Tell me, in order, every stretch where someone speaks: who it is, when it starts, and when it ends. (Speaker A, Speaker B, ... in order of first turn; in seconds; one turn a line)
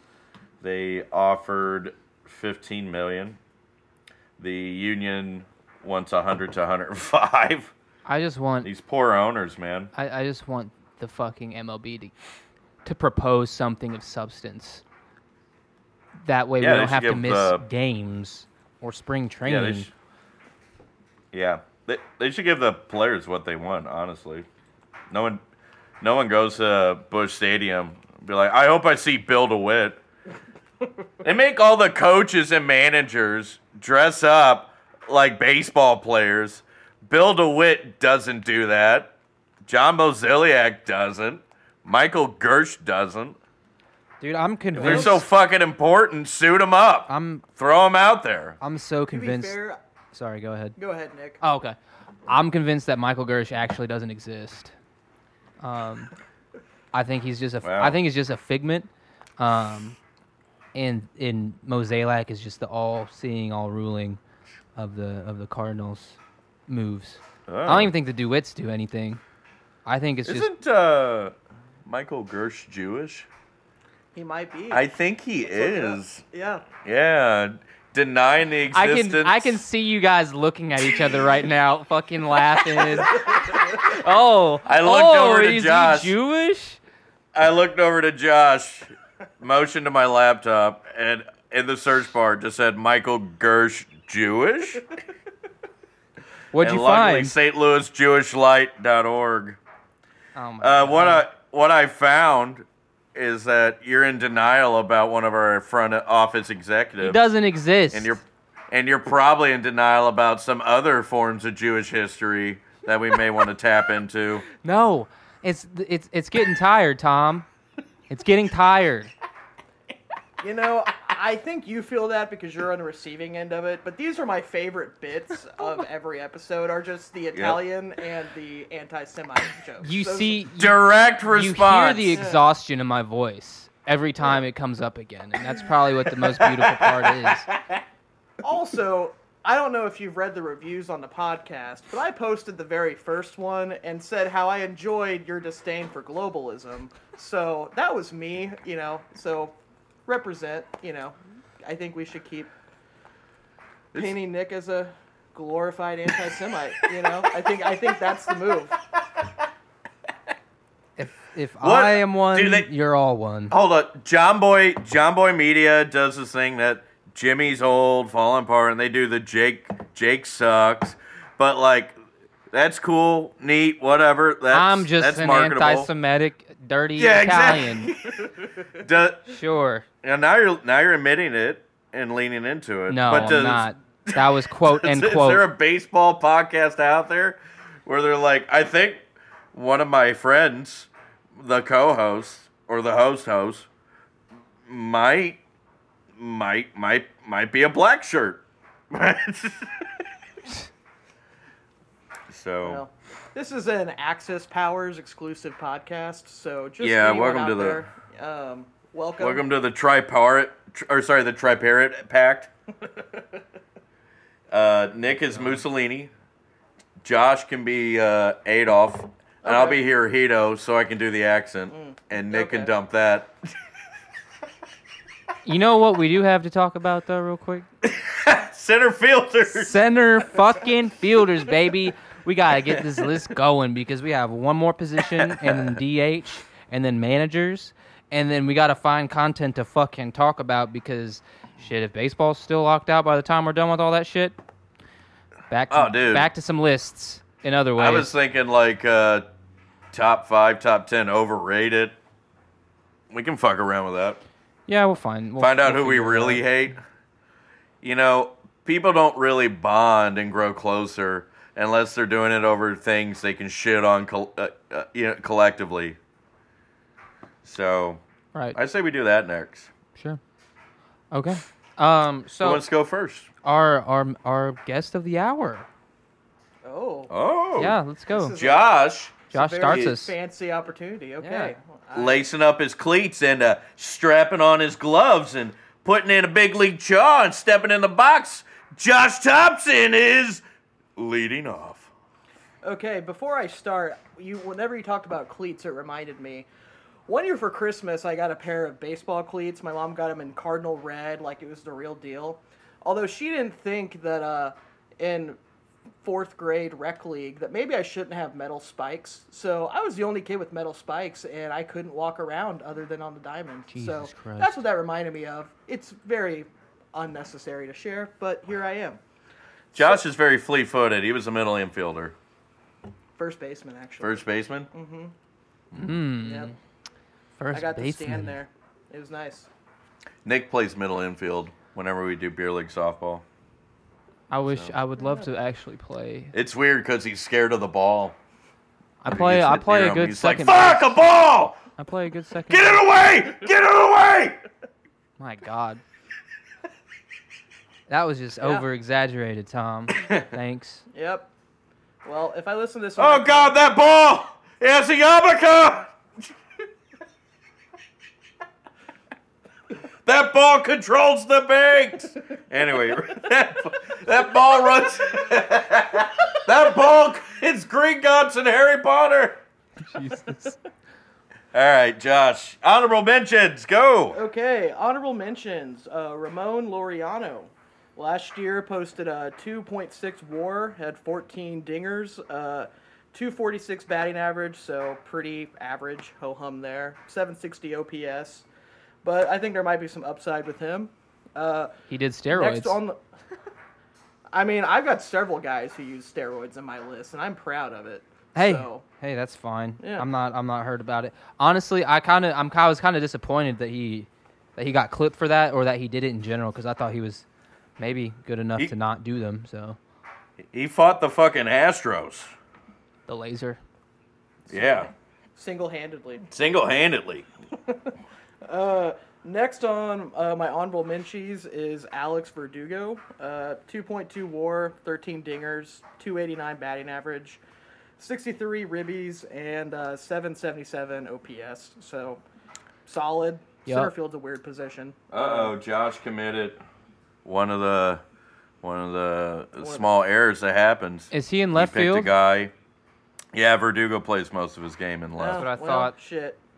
Speaker A: 0.6-3.4
Speaker A: 4.4-7.7
Speaker B: 8.1-8.7
Speaker A: 8.6-9.9
Speaker B: 9.9-12.1
Speaker B: 12.8-14.8
Speaker B: 16.2-19.9
Speaker A: 16.6-17.6
Speaker A: 19.4-19.9
Speaker A: 21.3-24.4
Speaker A: 25.1-25.4
Speaker A: 26.0-30.0
Speaker A: 31.2-39.1
Speaker A: 39.6-43.4
Speaker B: 44.2-45.2
Speaker C: 44.7-45.2
Speaker A: 44.8-48.6
Speaker B: 47.1-47.4
Speaker B: 48.6-49.6
Speaker C: 49.1-49.8
Speaker B: 50.1-50.8
Speaker C: 50.8-51.4
Speaker B: 51.4-54.7
Speaker B: 55.6-56.1
Speaker B: 56.9-60.0
Speaker A: 57.6-58.0
Speaker B: 60.7-64.2
Speaker B: 64.8-69.2
Speaker A: 67.5-67.9
Speaker B: 69.8-70.5
Speaker A: 70.2-71.3
Speaker A: 71.8-73.3
Speaker C: 74.1-74.8
Speaker A: 74.7-76.2
Speaker C: 75.5-76.7
Speaker A: 76.8-79.6
Speaker B: 78.7-86.8
Speaker C: 83.0-83.6
Speaker A: 84.6-86.1
Speaker A: 87.3-94.9
Speaker B: 96.5-97.3
Speaker A: 96.6-99.6
Speaker B: 100.3-101.3
Speaker A: 100.6-107.2
Speaker B: 107.0-108.2
Speaker A: 107.9-114.4
Speaker B: 114.6-117.5
Speaker B: 118.1-119.1
Speaker C: 120.4-130.4
Speaker A: 127.3-127.6
Speaker B: 129.8-137.5
Speaker A: 130.6-132.2
Speaker C: 132.1-132.4
Speaker C: 138.4-152.5
Speaker C: 153.9-158.8
Speaker B: 161.0-163.5
Speaker A: 161.6-162.7
Speaker A: 163.5-171.9
Speaker A: 172.5-175.9
Speaker B: 174.5-177.9
Speaker A: 177.0-179.4
Speaker B: 179.3-179.8
Speaker A: 180.0-189.0
Speaker B: 182.9-185.4
Speaker A: 189.5-193.7
Speaker A: 194.7-195.4
Speaker A: 196.2-199.9
Speaker A: 202.3-202.8
Speaker C: 202.6-209.4
Speaker A: 206.8-207.8
Speaker A: 209.2-212.5
Speaker A: 214.5-216.1
Speaker A: 217.0-223.3
Speaker C: 219.4-219.8
Speaker C: 221.7-222.7
Speaker B: 225.4-227.7
Speaker A: 227.8-229.8
Speaker B: 229.5-244.4
Speaker B: 245.5-248.1
Speaker A: 245.7-246.3
Speaker A: 247.8-249.3
Speaker A: 249.9-251.9
Speaker A: 253.1-254.2
Speaker B: 254.7-256.4
Speaker A: 255.4-256.8
Speaker A: 257.8-266.0
Speaker A: 267.4-268.0
Speaker A: 268.5-269.7
Speaker B: 269.9-270.2
Speaker B: 271.1-272.6
Speaker A: 272.4-273.3
Speaker B: 273.4-275.7
Speaker C: 276.6-277.1
Speaker A: 277.1-277.8
Speaker B: 277.6-278.4
Speaker C: 278.1-278.7
Speaker A: 278.3-280.0
Speaker C: 279.3-282.2
Speaker B: 279.3-280.1
Speaker B: 281.2-281.5
Speaker A: 281.9-290.4
Speaker A: 291.0-291.9
Speaker C: 292.6-296.5
Speaker C: 297.1-305.4
Speaker C: 306.0-319.0
Speaker B: 313.7-314.6
Speaker C: 319.7-320.0
Speaker A: 319.7-322.1
Speaker C: 323.2-325.1
Speaker A: 324.0-324.7
Speaker B: 325.7-326.5
Speaker C: 326.2-326.5
Speaker B: 327.4-328.4
Speaker C: 327.5-329.5
Speaker A: 330.2-333.2
Speaker B: 334.3-336.3
Speaker A: 334.5-334.7
Speaker C: 335.0-335.2
Speaker A: 336.3-338.2
Speaker B: 339.0-341.0
Speaker A: 339.1-341.6
Speaker B: 341.8-342.8
Speaker A: 342.5-344.4
Speaker B: 345.2-345.8
Speaker B: 347.9-350.9
Speaker A: 349.9-350.3
Speaker C: 350.9-351.3
Speaker C: 352.0-353.6
Speaker A: 353.0-355.9
Speaker A: 360.1-369.4
Speaker B: 369.8-370.6
Speaker A: 371.5-374.2
Speaker C: 374.1-388.4
Speaker C: 389.0-391.7
Speaker B: 391.9-392.8
Speaker C: 392.3-393.0
Speaker C: 394.3-398.8
Speaker B: 398.3-407.2
Speaker C: 399.8-400.1
Speaker B: 407.8-409.8
Speaker A: 410.5-412.3
Speaker B: 413.1-413.6
Speaker C: 414.5-416.2
Speaker A: 414.5-414.9
Speaker A: 416.3-417.3
Speaker C: 418.4-427.4
Speaker C: 428.0-432.2
Speaker C: 432.9-435.5
Speaker B: 433.6-433.9
Speaker A: 435.1-436.6
Speaker A: 437.2-438.0
Speaker A: 438.6-442.5
Speaker C: 439.6-439.9
Speaker B: 441.1-442.1
Speaker A: 443.3-445.5
Speaker C: 445.2-446.4
Speaker B: 445.3-445.9